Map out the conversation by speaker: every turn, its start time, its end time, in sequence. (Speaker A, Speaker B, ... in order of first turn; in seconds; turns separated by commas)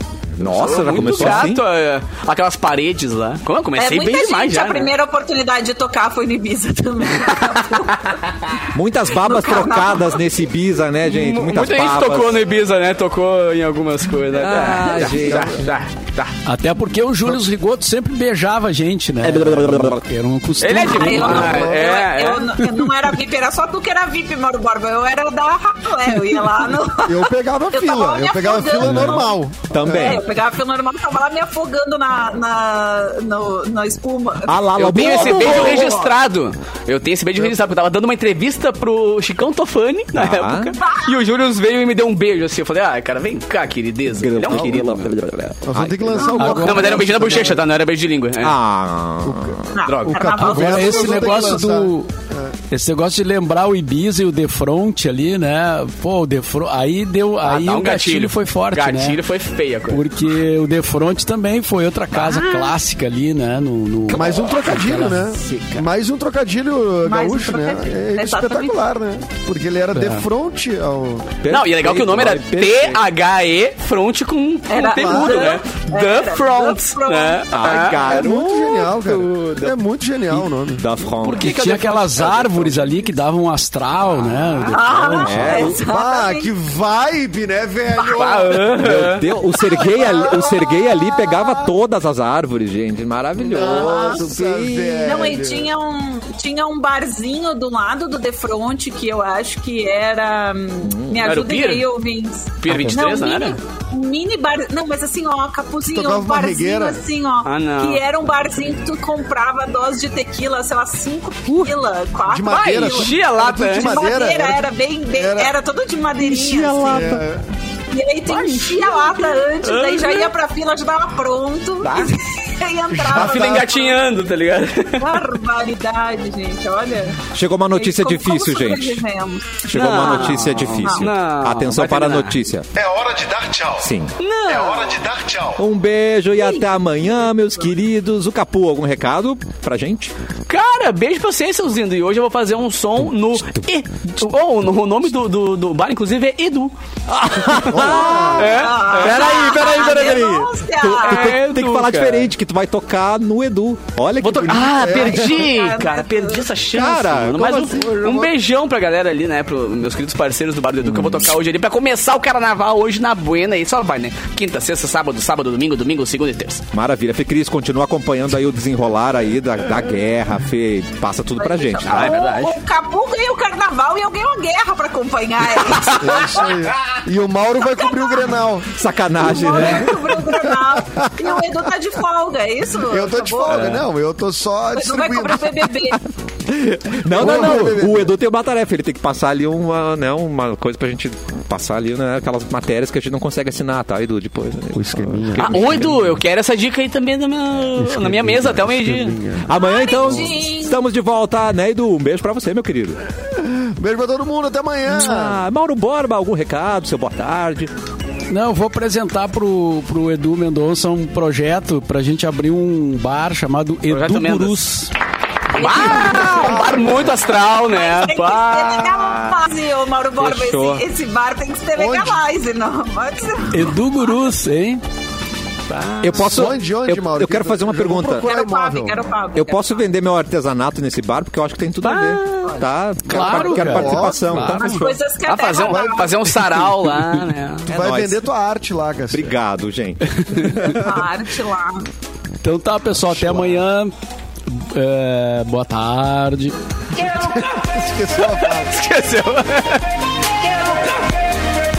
Speaker A: 0.4-1.6, Speaker B: 0.4-4.9, Speaker C: 3.8-10.2, Speaker B: 7.3-8.1, Speaker A: 8.7-12.4, Speaker B: 11.0-16.3, Speaker A: 14.3-15.7, Speaker D: 15.0-15.7, Speaker E: 16.4-21.6, Speaker A: 19.2-20.0, Speaker B: 20.6-22.6, Speaker C: 20.9-36.0, Speaker D: 21.4-21.9, Speaker D: 27.0-30.2, Speaker E: 28.8-29.2, Speaker A: 29.7-30.3, Speaker A: 34.5-36.1, Speaker B: 34.8-45.1, Speaker A: 40.1-40.8, Speaker A: 44.2-46.9, Speaker D: 44.5-44.9, Speaker D: 45.6-47.7, Speaker C: 46.2-46.6, Speaker E: 46.4-47.1, Speaker B: 46.5-48.6, Speaker A: 48.4-49.8, Speaker D: 49.2-52.5, Speaker C: 49.7-51.6, Speaker B: 49.9-50.4, Speaker E: 50.4-52.1, Speaker E: 52.7-59.2, Speaker B: 57.4-60.0, Speaker E: 59.9-65.8, Speaker B: 62.1-62.8, Speaker A: 64.1-64.5, Speaker D: 64.1-71.4, Speaker C: 67.0-68.8, Speaker E: 69.9-70.3, Speaker A: 71.4-73.0, Speaker B: 71.5-78.2, Speaker C: 74.7-77.5, Speaker D: 75.0-75.5, Speaker A: 77.5-79.8, Speaker D: 78.1-80.8, Speaker A: 80.3-81.6, Speaker B: 81.2-83.1, Speaker E: 81.3-85.7, Speaker C: 84.7-86.5, Speaker A: 85.2-85.8, Speaker D: 85.5-88.7, Speaker C: 88.0-88.6, Speaker B: 88.1-89.3, Speaker A: 88.7-95.2, Speaker C: 89.6-91.6, Speaker D: 93.4-95.7, Speaker C: 93.5-94.2, Speaker C: 95.0-117.1, Speaker A: 100.8-101.3, Speaker B: 101.2-101.9, Speaker B: 102.6-103.6, Speaker A: 102.7-103.1, Speaker D: 105.9-107.0, Speaker B: 107.5-108.0, Speaker A: 111.5-111.8, Speaker D: 112.3-115.5, Speaker B: 112.6-114.0, Speaker A: 116.2-117.2, Speaker D: 116.8-117.5, Speaker C: 117.9-124.0, Speaker B: 118.3-120.3, Speaker B: 121.8-122.1, Speaker D: 122.9-123.7, Speaker B: 123.1-125.2, Speaker C: 125.0-127.2, Speaker A: 127.3-129.1, Speaker C: 127.7-131.1, Speaker A: 129.7-132.7, Speaker B: 129.7-132.4, Speaker F: 132.7-133.9, Speaker A: 133.8-134.1, Speaker B: 134.2-135.0, Speaker F: 134.5-135.6, Speaker A: 135.6-140.1, Speaker C: 136.4-136.7, Speaker B: 140.5-146.7, Speaker A: 147.1-148.4, Speaker B: 147.3-152.3, Speaker D: 147.7-148.7, Speaker C: 147.8-151.3, Speaker A: 148.9-155.5, Speaker B: 154.2-166.6, Speaker D: 154.8-155.3, Speaker C: 154.9-156.5, Speaker A: 156.7-157.9, Speaker D: 157.7-158.3, Speaker A: 160.8-161.4, Speaker A: 166.7-172.2, Speaker C: 171.4-176.6, Speaker B: 171.8-172.6, Speaker B: 175.7-176.3, Speaker D: 176.0-178.7, Speaker C: 177.7-178.3, Speaker A: 178.7-180.3, Speaker C: 179.2-183.8, Speaker D: 179.3-180.1, Speaker D: 180.8-181.4, Speaker D: 182.9-185.6, Speaker B: 183.5-183.8, Speaker C: 184.8-186.0, Speaker A: 185.9-196.1, Speaker D: 187.1-188.2, Speaker D: 194.7-195.7, Speaker B: 195.4-199.2, Speaker D: 197.8-199.5, Speaker A: 199.4-203.0, Speaker C: 199.5-200.9, Speaker D: 203.3-205.4, Speaker A: 204.9-207.7, Speaker E: 208.3-214.9, Speaker B: 213.9-214.7, Speaker B: 215.6-219.3, Speaker C: 215.6-216.7, Speaker A: 215.7-216.5, Speaker D: 216.1-217.2, Speaker C: 217.3-223.9, Speaker A: 220.2-220.8, Speaker D: 221.8-222.2, Speaker E: 223.5-224.8, Speaker B: 225.7-226.2, Speaker A: 226.0-228.3, Speaker D: 226.1-229.0, Speaker C: 228.3-229.9, Speaker A: 229.3-235.1, Speaker B: 231.8-232.6, Speaker E: 233.1-234.8, Speaker D: 233.1-234.6, Speaker C: 234.6-236.3, Speaker B: 235.2-237.7, Speaker D: 235.7-236.1, Speaker A: 237.7-238.2, Speaker D: 237.7-239.4, Speaker A: 239.1-241.0, Speaker C: 240.3-241.9, Speaker E: 242.4-243.9, Speaker D: 243.1-243.6, Speaker E: 244.5-246.6, Speaker D: 247.0-248.8, Speaker B: 248.2-249.9, Speaker B: 250.5-250.9